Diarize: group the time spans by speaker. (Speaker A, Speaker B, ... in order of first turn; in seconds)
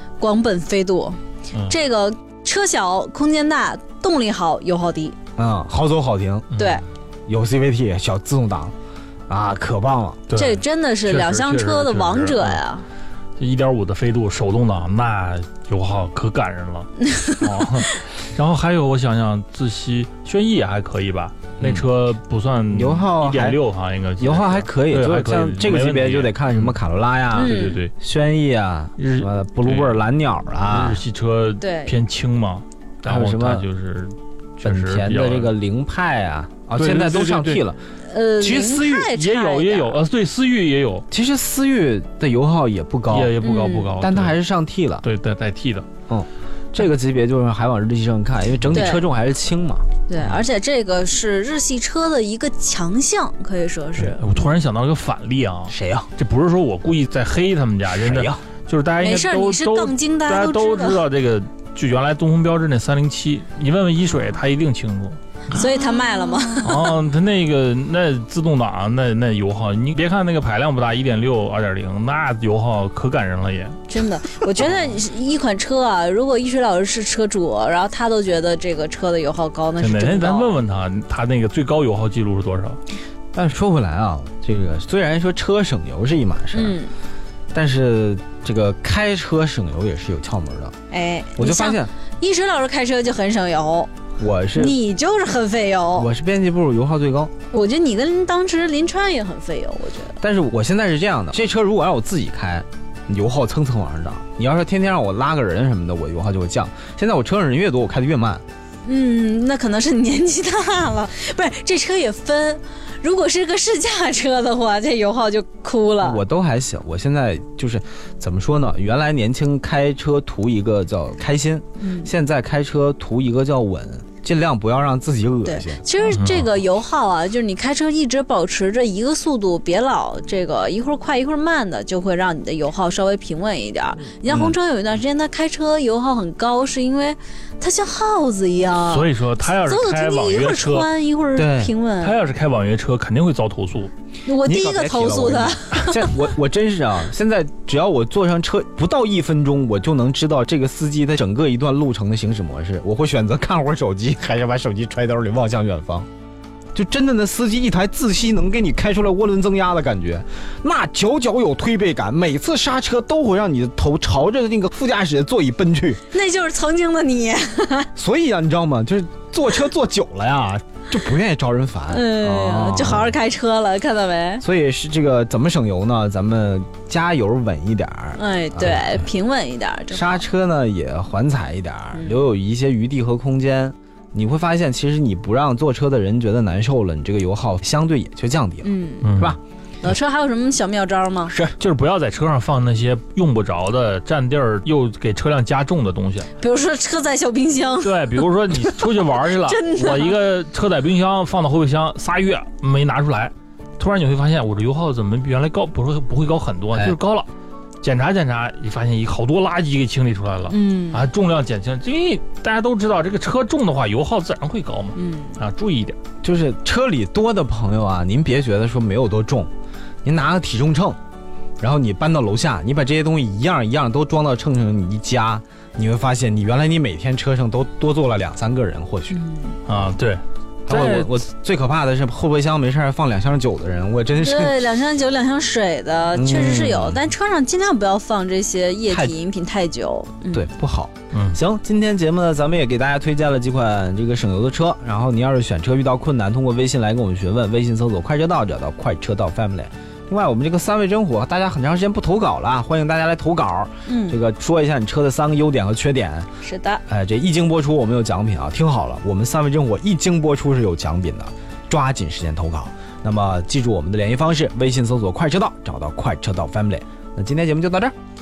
Speaker A: 0.2-5.2, 6.5-6.8, 10.3-12.8, 17.0-17.4, 27.3-27.8, 31.6-31.9, 38.0-40.0, 43.4-43.9, 48.7-49.1, 50.1-54.4, 59.0-61.0, 65.5-66.9, 73.9-80.6, 86.5-86.9, 90.9-93.9, 94.5-96.1, 97.5-100.2, 108.8-116.2, 121.8-122.1, 125.4-142.2, 144.2-146.2, 166.1-167.9, 171.9-174.4, 178.1-180.2, 188.6-189.2, 189.8-191.3, 196.4-198.7, 199.4-200.2, 210.5-211.1, 214.9-215.4, 229.1-229.6, 234.2-240.5, 253.8-254.2, 256.4-256.8
Speaker B: 5.4-6.5, 7.3-8.7, 9.3-10.2, 21.6-21.9, 22.7-23.6, 24.2-31.0, 33.0-33.6, 34.6-37.8, 38.4-39.1, 41.1-43.4, 44.0-45.0, 46.1-49.9, 55.7-56.1, 57.9-58.4, 83.3-86.8, 87.5-90.7, 91.3-91.9, 94.2-94.8, 96.0-97.3, 100.2-108.4, 116.0-125.8, 134.3-134.6, 141.3-141.7, 144.4-156.1, 156.7-166.0, 167.9-173.2, 174.4-178.9, 179.9-189.4, 191.3-191.6, 206.7-207.0, 216.2-219.5, 220.0-221.0, 221.6-229.2, 230.7-234.6, 236.1-237.0, 238.9-239.1, 240.3-256.3, 256.9-267.9
Speaker C: 6.5-6.8, 10.3-12.6, 13.4-26.7, 27.4-27.9, 29.0-30.0, 30.6-35.5, 36.7-37.6, 39.1-41.0, 43.1-44.4, 45.0-45.9, 54.0-65.6, 66.6-73.8, 74.6-74.9, 79.8-82.8, 126.1-126.5, 138.8-140.9, 142.0-143.9, 189.0-189.9, 191.6-196.3, 197.8-207.3, 207.8-216.0, 229.7-231.2, 241.1-241.4